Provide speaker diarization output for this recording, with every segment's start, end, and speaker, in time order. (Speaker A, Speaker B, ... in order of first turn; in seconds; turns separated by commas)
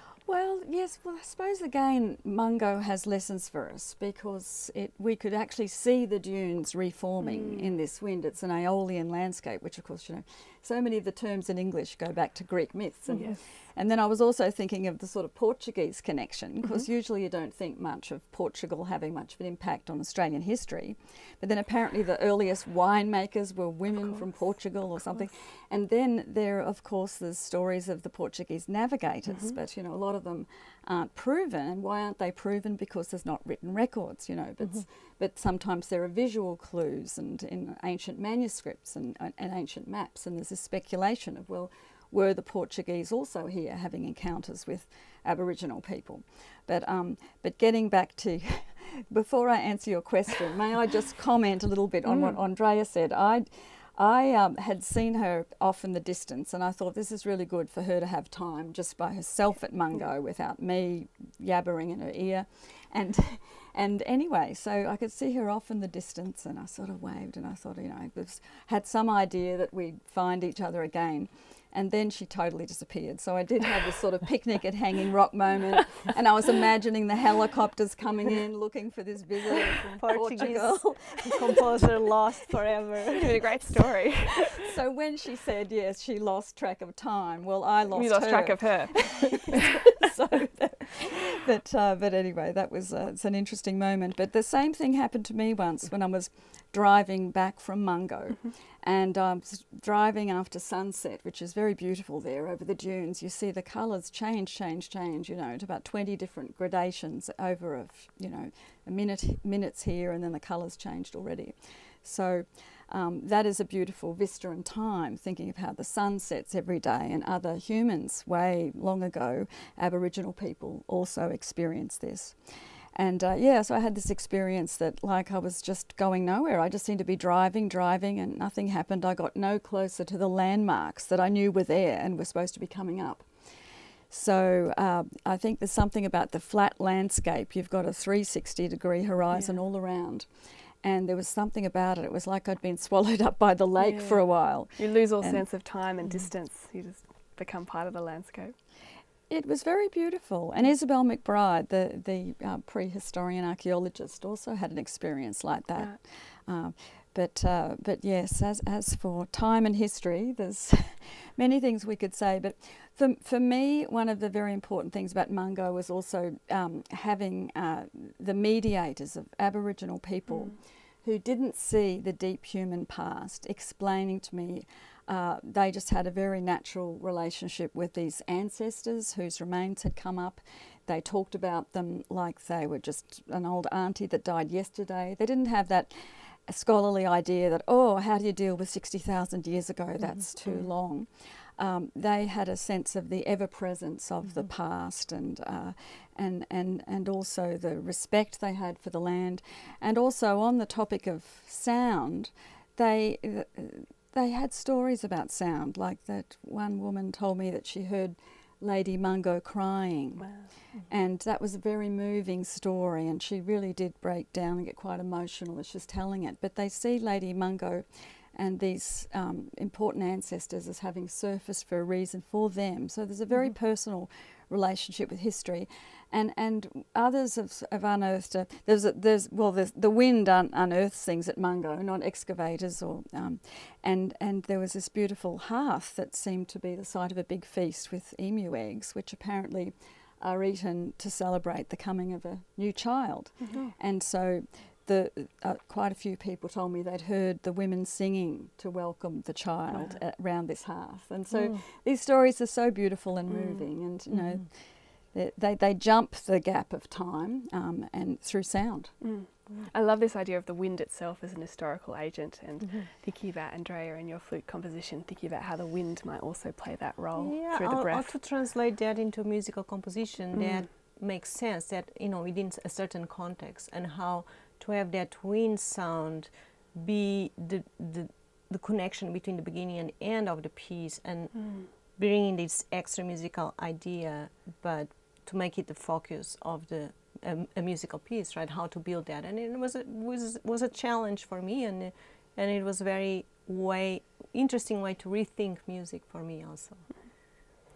Speaker A: 0.3-81.9, Speaker B: 7.2-7.8, Speaker B: 13.1-13.4, Speaker B: 24.0-24.2, Speaker B: 29.3-29.6, Speaker B: 52.0-52.4, Speaker C: 80.0-83.7, Speaker B: 83.1-84.6, Speaker A: 84.5-146.2, Speaker B: 87.9-89.8, Speaker B: 143.8-148.6, Speaker A: 149.3-259.0, Speaker B: 170.3-170.5, Speaker B: 210.2-210.5, Speaker B: 249.7-250.0, Speaker C: 251.3-251.6, Speaker B: 253.3-253.7, Speaker C: 254.1-254.5, Speaker B: 259.0-268.2, Speaker C: 267.2-297.0, Speaker B: 270.3-270.7, Speaker B: 281.4-281.7